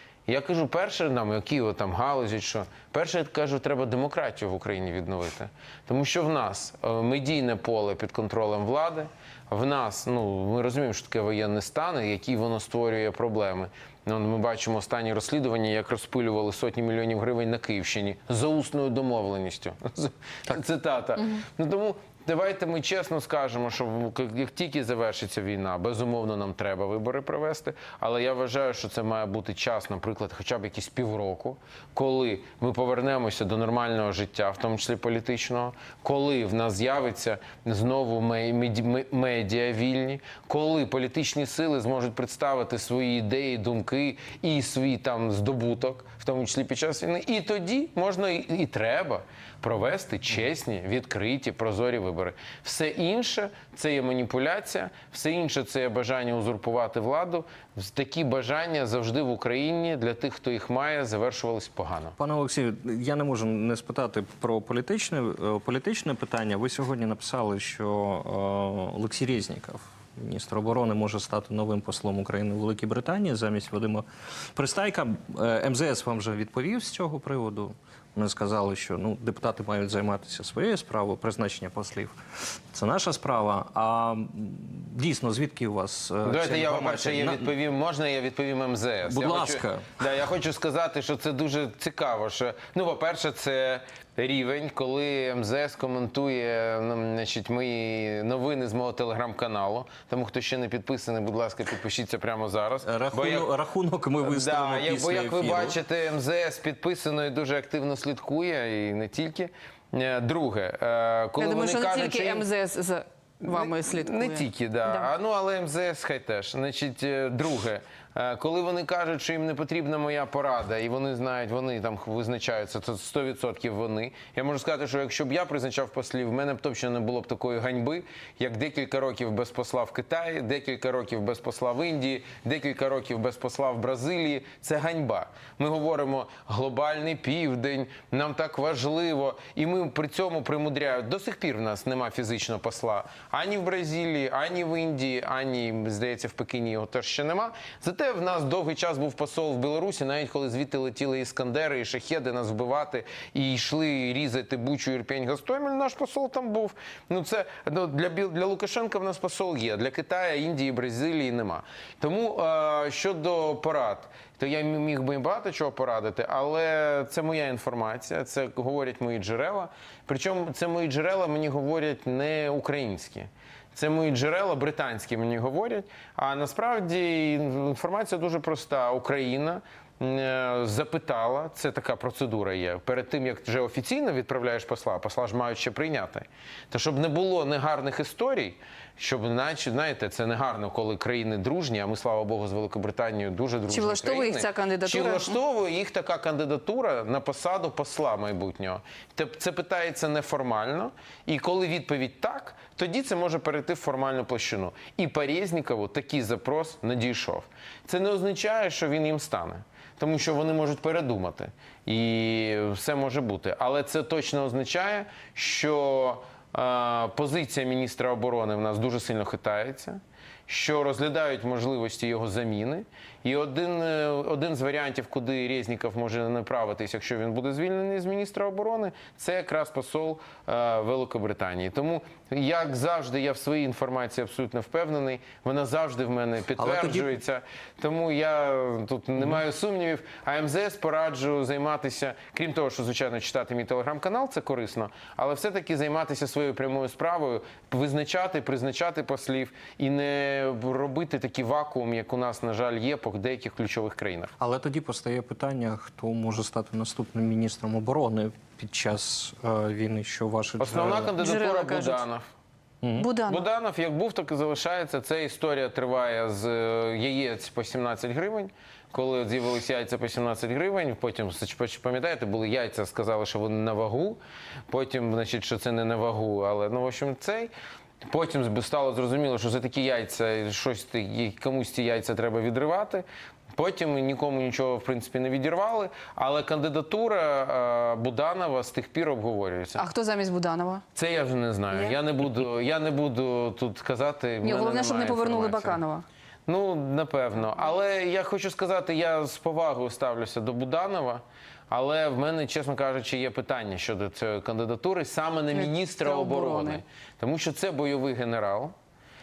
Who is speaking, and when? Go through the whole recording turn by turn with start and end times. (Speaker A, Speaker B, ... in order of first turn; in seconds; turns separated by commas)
Speaker A: 0.3-62.1, Speaker B: 62.2-82.2, Speaker B: 82.7-87.5, Speaker A: 86.2-103.5, Speaker B: 89.0-90.0, Speaker B: 102.8-105.8, Speaker A: 104.2-112.5, Speaker C: 111.4-115.1, Speaker A: 113.4-254.3, Speaker C: 193.7-195.4, Speaker B: 236.6-237.1, Speaker B: 254.4-261.1, Speaker A: 260.6-262.3, Speaker C: 261.2-262.0, Speaker B: 262.8-263.1, Speaker C: 263.0-263.4, Speaker A: 263.3-277.5, Speaker A: 278.1-289.9, Speaker C: 289.8-290.8, Speaker A: 290.9-295.8, Speaker C: 291.7-292.0, Speaker C: 294.4-296.0, Speaker A: 296.5-308.7, Speaker C: 305.5-306.8